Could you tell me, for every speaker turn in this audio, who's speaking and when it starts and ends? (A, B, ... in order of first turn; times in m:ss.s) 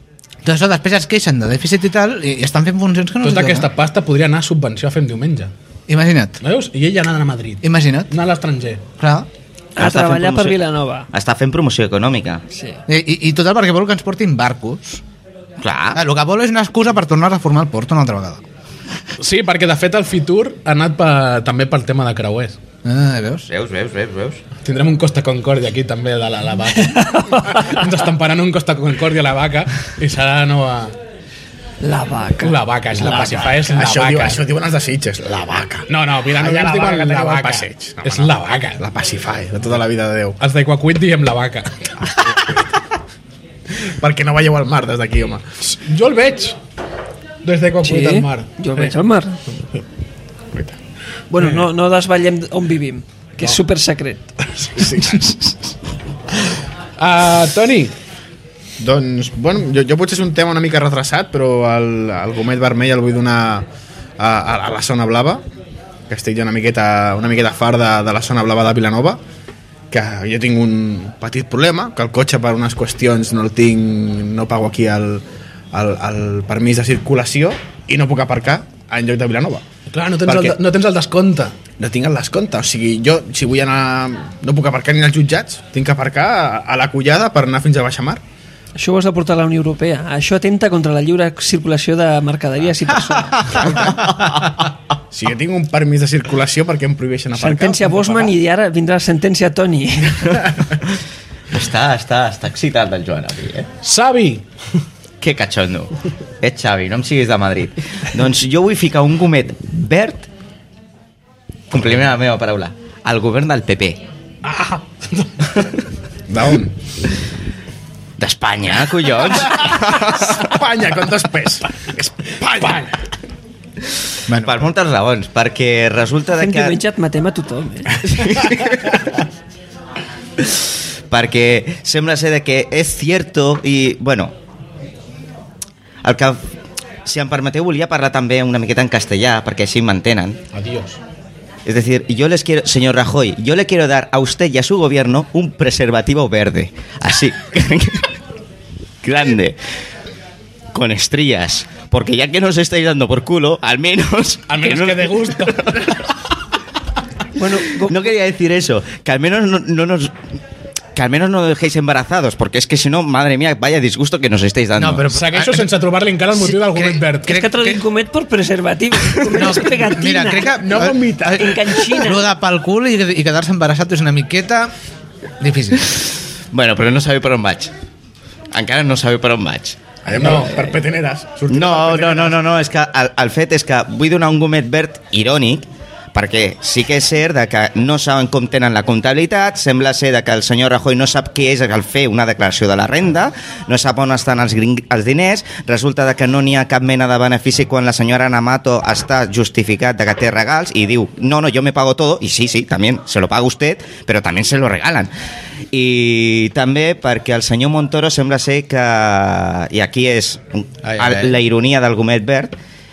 0:00.4-0:03.7 A
0:03.2-0:05.5 B
0:05.9-0:06.4 A
0:06.4-0:08.8 B
0:07.6-0:08.1 A
0:09.0-0:09.3 A
0:09.8-0:11.1 C
0:09.8-0:12.4 D
0:12.5-0:12.8 C
0:12.9-0:15.0 A
0:15.6-0:16.0 D
0:15.9-0:18.4 A
0:19.2-0:22.6 B
0:22.8-0:23.5 A
0:23.5-0:24.4 D
0:24.6-0:31.0 B
0:26.9-0:27.8 C
0:31.8-0:32.6 C
0:32.4-0:34.4 B
0:33.0-0:40.4 E
0:35.9-0:38.8 B
0:40.4-0:42.4 B
0:43.7-0:45.4 E
0:45.7-0:46.6 B
0:47.4-0:48.9 B
0:47.8-0:49.4 C
0:51.3-0:54.3 C
0:54.8-0:55.5 E
0:57.0-0:57.9 B
0:58.8-1:03.7 E
1:04.2-1:05.4 E
1:06.1-1:09.2 E
1:09.9-1:19.6 E
1:19.9-1:21.6 B
1:20.3-1:20.6 E
1:21.8-1:28.2 E
1:28.8-1:33.8 C
1:33.6-1:33.9 A
1:34.1-1:34.5 D
1:35.1-1:38.3 E
1:37.4-1:40.5 C
1:41.5-1:43.7 D
1:43.8-1:44.4 B
1:45.2-1:50.3 D
1:51.7-1:54.0 D
1:54.4-1:55.3 B
1:56.3-1:56.8 E
1:58.2-2:00.5 D
2:00.3-2:02.8 E
2:02.4-2:02.9 B
2:04.4-2:06.8 D
2:06.4-2:08.1 C
2:08.1-2:09.2 D
2:10.4-2:14.3 D
2:16.0-2:16.4 D
2:17.0-2:20.4 D
2:20.5-2:21.0 B
2:21.7-2:28.1 D
2:29.0-2:29.6 D
2:30.7-2:36.0 D
2:34.5-2:36.0 B
2:37.3-2:38.0 C
2:37.8-2:40.2 D
2:41.0-2:45.1 D
2:44.8-2:45.7 A
2:45.1-2:47.4 B
2:46.3-2:47.8 A
2:47.3-2:52.2 C
2:49.3-2:54.7 A
2:50.6-2:51.9 E
2:55.4-2:55.9 A
2:56.5-2:57.7 D
2:58.5-2:59.8 D
3:00.0-3:02.4 E
3:00.3-3:00.7 C
3:01.5-3:25.1 D
3:25.7-3:32.6 D